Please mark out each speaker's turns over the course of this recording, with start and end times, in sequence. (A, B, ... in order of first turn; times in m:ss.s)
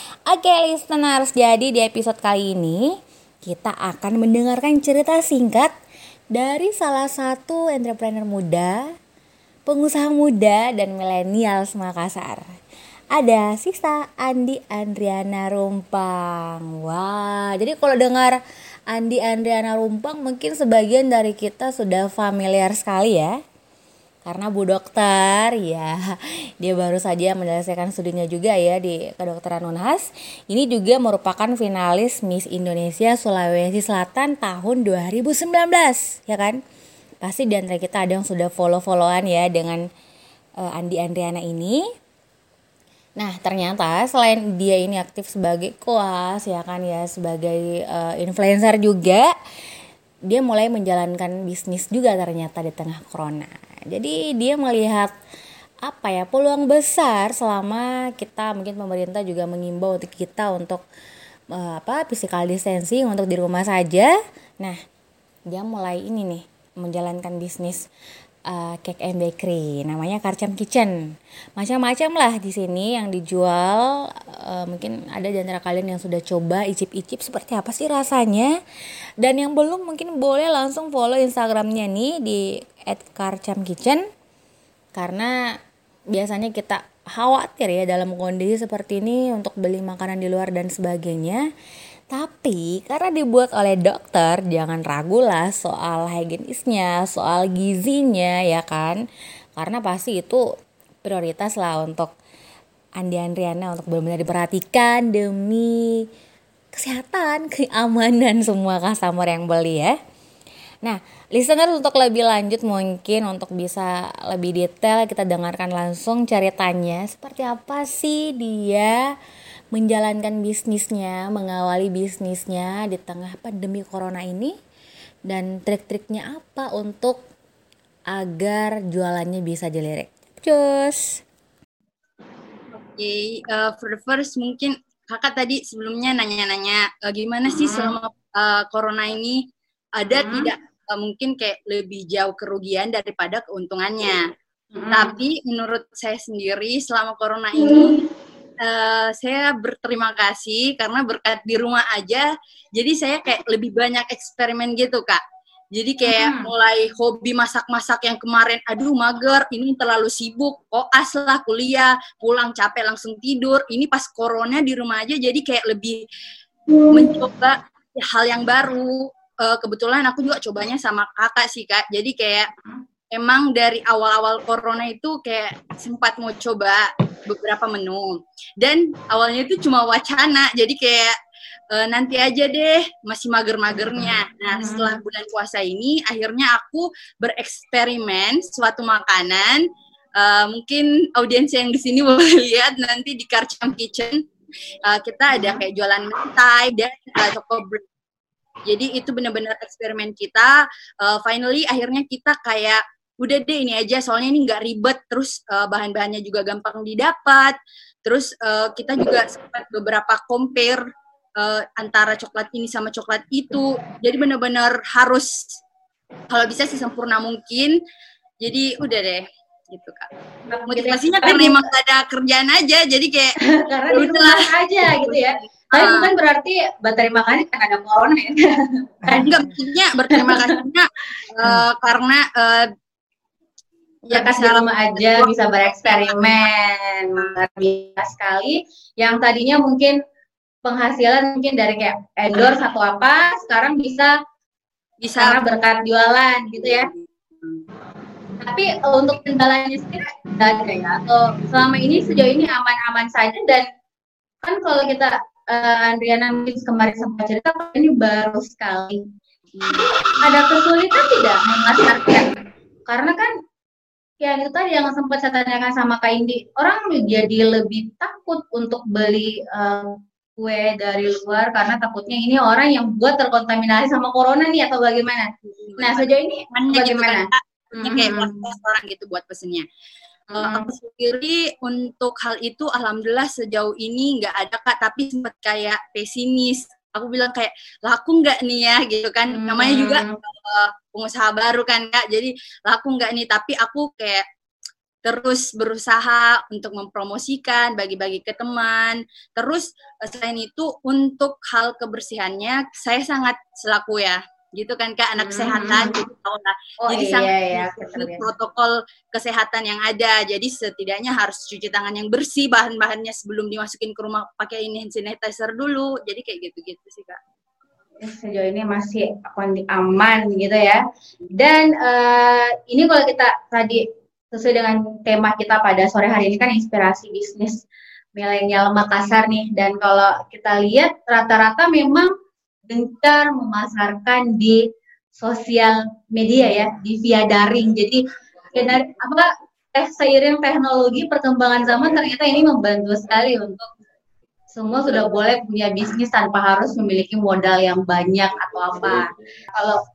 0:00.3-0:02.9 A
0:03.4-0:05.7 A
0:06.3-0:08.8 A
0:09.7-0:12.4 A
0:13.1-0:18.4 A
0:18.9-0:23.4 A
0:24.2-0:36.6 A
0:37.2-0:39.8 A
0:40.6-0:41.8 A
0:43.2-0:49.3 A
0:50.3-0:55.1 A
0:55.8-1:00.8 A
1:01.5-1:04.8 A
1:05.5-1:07.9 A
1:08.5-1:18.6 A
1:19.2-1:24.0 A
1:24.9-1:25.4 A
1:26.1-1:31.4 A
1:32.1-1:39.0 A
1:39.6-1:40.4 A
1:41.0-1:42.1 A
1:43.0-1:46.1 A
1:46.7-1:50.0 A
1:50.8-1:59.1 A
1:59.7-2:04.5 A
2:05.3-2:07.2 A
2:08.1-2:11.2 A
2:13.0-2:19.4 B
2:17.5-2:18.0 C
2:20.0-2:24.2 B
2:20.0-2:20.5 C
2:24.7-2:25.2 C
2:24.9-2:28.0 B
2:27.6-2:28.0 C
2:28.6-2:35.2 B
2:35.7-2:46.0 B
2:36.0-2:36.5 C
2:46.9-2:52.5 B
2:53.1-3:01.1 B
3:01.7-3:09.6 B
3:04.5-3:05.0 C
3:10.2-3:14.2 B
3:14.9-3:17.8 B
3:18.7-3:30.8 B
3:31.4-3:35.6 B
3:36.3-3:37.8 B
3:38.4-3:40.0 B
3:40.5-3:41.6 C
3:40.7-3:43.4 B
3:43.4-3:49.3 C
3:43.9-3:46.1 B
3:49.0-3:49.5 A
3:49.2-3:52.7 B
3:50.1-3:50.5 C
3:54.1-3:56.1 B
3:54.1-4:00.0 C
4:00.6-4:04.1 C
4:05.0-4:05.4 B
4:05.2-4:06.9 C
4:06.5-4:07.6 B
4:08.4-4:13.6 C
4:14.4-4:19.1 C
4:19.5-4:19.9 B
4:19.7-4:22.3 C
4:22.9-4:23.3 C
4:24.2-4:38.5 C
4:35.5-4:39.6 B
4:40.3-4:40.7 C
4:40.4-4:54.2 B
4:49.3-4:50.1 C
4:55.0-5:17.2 B
5:05.2-5:05.9 C
5:06.8-5:08.2 C
5:18.0-5:20.8 C
5:21.3-5:27.6 C
5:28.1-5:32.1 C
5:32.7-5:34.6 C
5:35.2-5:43.7 C
5:44.5-5:49.8 C